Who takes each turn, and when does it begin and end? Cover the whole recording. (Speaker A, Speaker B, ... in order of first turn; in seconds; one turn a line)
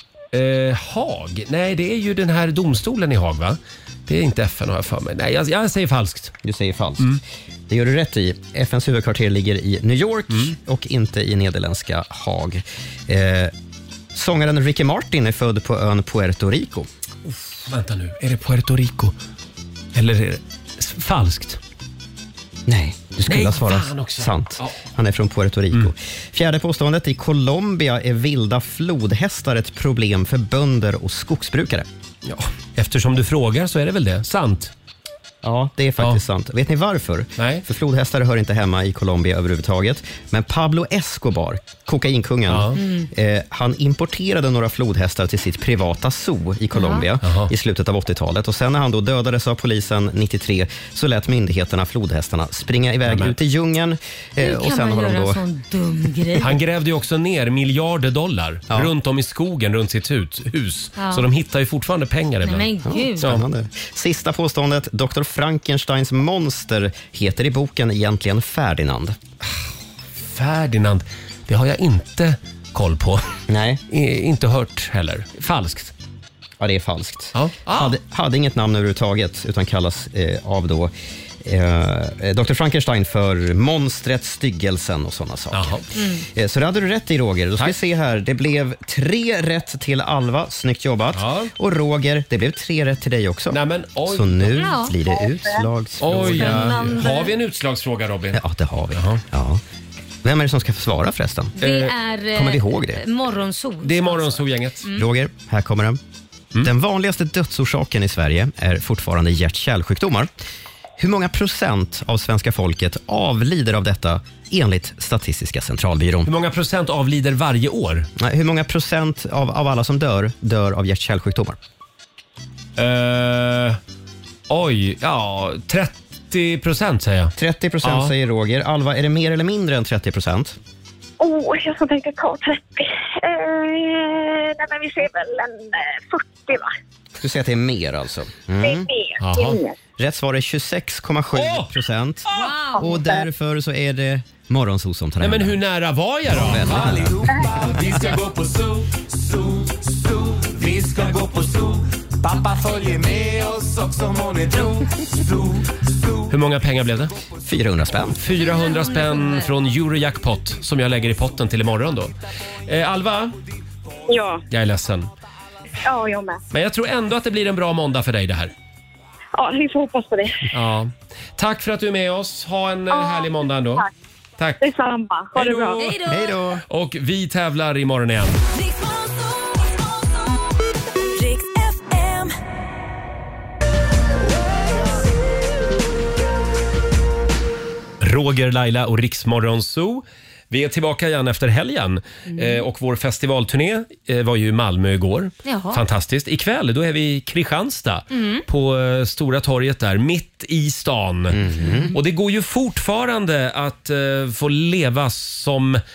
Speaker A: 0.3-6.3
Speaker B: 6.4-13.5
Speaker B: 14.1-16.9
Speaker A: 17.3-19.1
Speaker A: 19.9-21.6
Speaker B: 22.7-31.9
Speaker A: 23.3-24.8
Speaker A: 32.2-34.7
Speaker B: 35.4-55.4
Speaker A: 37.4-37.6
Speaker A: 42.5-42.8
Speaker C: 42.8-43.1
Speaker C: 46.7-47.1
Speaker A: 47.2-47.5
Speaker A: 53.1-53.4
Speaker C: 54.4-56.5
Speaker A: 56.4-62.7
Speaker C: 61.0-61.2
Speaker C: 62.4-63.3
Speaker B: 62.8-69.2
Speaker A: 70.2-73.2
Speaker B: 73.5-73.8
Speaker A: 73.9-75.9
Speaker B: 76.6-96.9
Speaker A: 77.3-78.0
Speaker A: 85.5-85.8
Speaker C: 85.9-86.2
Speaker A: 91.1-91.5
Speaker A: 93.5-94.7
Speaker C: 94.5-95.0
Speaker D: 95.1-95.6
Speaker A: 96.0-98.4
Speaker C: 96.3-97.3
Speaker B: 98.3-99.6
Speaker A: 98.9-99.2
Speaker B: 100.2-103.0
Speaker C: 101.6-105.0
Speaker A: 103.8-104.8
Speaker B: 104.9-106.0
Speaker B: 106.6-110.3
Speaker B: 111.0-116.3
Speaker A: 116.2-118.1
Speaker B: 118.2-121.6
Speaker A: 122.8-123.8
Speaker A: 124.5-128.1
Speaker B: 127.3-130.6
Speaker D: 131.2-136.7
Speaker B: 137.2-138.9
Speaker D: 138.6-139.8
Speaker A: 139.2-139.6
Speaker B: 140.0-142.2
Speaker A: 141.3-141.7
Speaker C: 142.3-142.9
Speaker B: 142.8-145.6
Speaker D: 142.8-143.2
Speaker A: 145.2-147.0
Speaker B: 146.3-147.2
Speaker E: 146.7-156.3
Speaker A: 156.3-157.1
Speaker B: 157.4-158.2
Speaker A: 158.0-163.3
Speaker C: 158.3-159.5
Speaker D: 164.1-164.4
Speaker A: 164.5-165.1
Speaker D: 165.8-166.4
Speaker A: 166.5-168.5
Speaker D: 169.3-170.5
Speaker A: 170.5-173.8
Speaker D: 172.9-173.9
Speaker A: 174.4-174.6
Speaker D: 174.6-175.8
Speaker A: 175.3-175.9
Speaker C: 175.8-176.4
Speaker B: 176.1-176.6
Speaker A: 176.7-178.4
Speaker F: 178.5-180.1
Speaker F: 181.1-182.3
Speaker A: 188.0-201.4
Speaker C: 195.4-195.8
Speaker C: 198.1-198.4
Speaker B: 201.3-201.9
Speaker A: 201.9-205.8